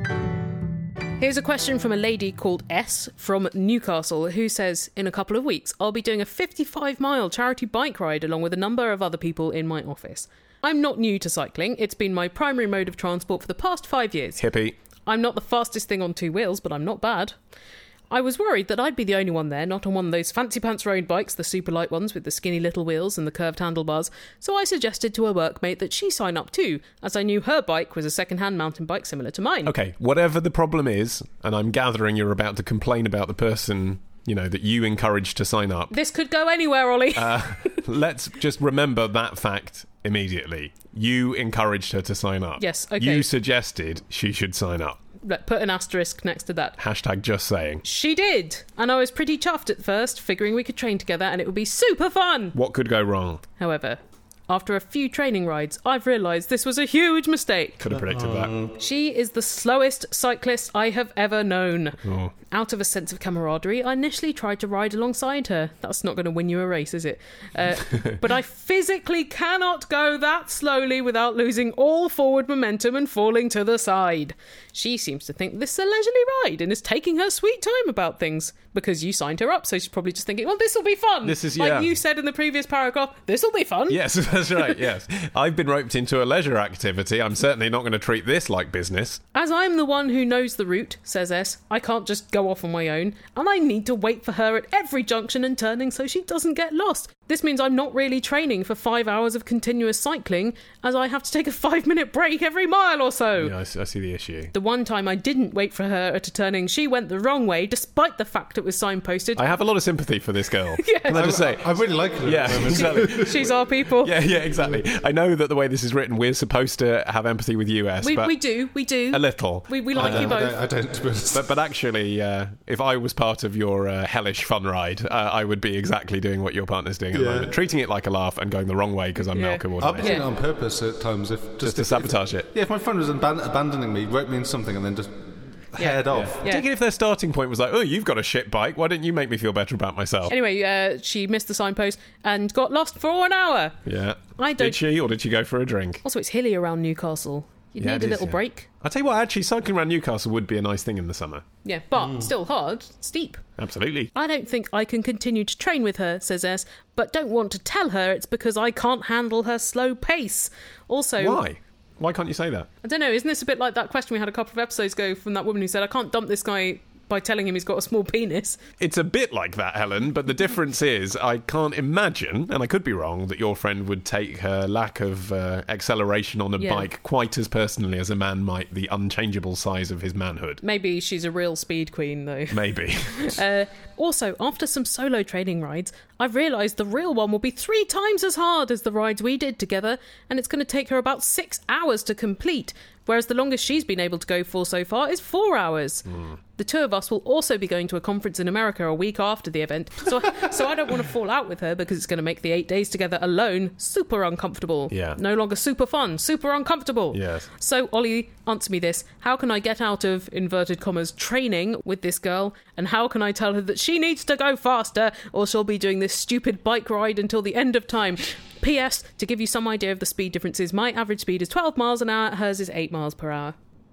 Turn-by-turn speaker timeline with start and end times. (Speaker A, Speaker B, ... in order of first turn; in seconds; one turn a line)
Speaker A: 1.2-14.4
Speaker B: 14.4-14.8
Speaker A: 15.1-17.4
Speaker A: 18.1-29.7
Speaker B: 29.6-35.9
Speaker A: 35.9-37.8
Speaker B: 37.1-45.0
Speaker A: 42.6-43.3
Speaker A: 45.2-46.8
Speaker B: 46.8-47.8
Speaker A: 47.8-52.6
Speaker B: 52.5-53.4
Speaker A: 53.6-57.8
Speaker B: 57.8-58.5
Speaker C: 57.9-58.8
Speaker A: 58.8-62.0
Speaker B: 62.0-62.3
Speaker A: 62.5-84.8
Speaker B: 81.2-81.9
Speaker B: 83.9-89.2
Speaker A: 89.3-103.5
Speaker B: 103.4-104.5
Speaker A: 104.5-109.5
Speaker B: 109.3-118.4
Speaker A: 110.8-111.4
Speaker C: 111.1-113.4
Speaker A: 112.7-114.2
Speaker A: 118.0-120.6
Speaker B: 119.1-120.4
Speaker C: 119.9-121.5
Speaker B: 121.3-130.2
Speaker C: 127.1-127.5
Speaker A: 129.2-130.3
Speaker C: 129.8-136.4
Speaker B: 131.6-132.5
Speaker A: 135.8-136.7
Speaker B: 136.1-140.3
Speaker A: 140.3-143.8
Speaker B: 143.8-146.0
Speaker A: 144.4-144.8
Speaker A: 146.0-148.7
Speaker B: 147.8-151.4
Speaker A: 151.7-153.4
Speaker B: 153.6-154.1
Speaker A: 154.2-161.4
Speaker B: 161.2-162.7
Speaker A: 162.8-168.6
Speaker B: 168.8-180.6
Speaker A: 176.6-176.9
Speaker A: 180.6-223.6
Speaker B: 182.5-183.4
Speaker B: 204.9-205.2
Speaker B: 207.1-207.5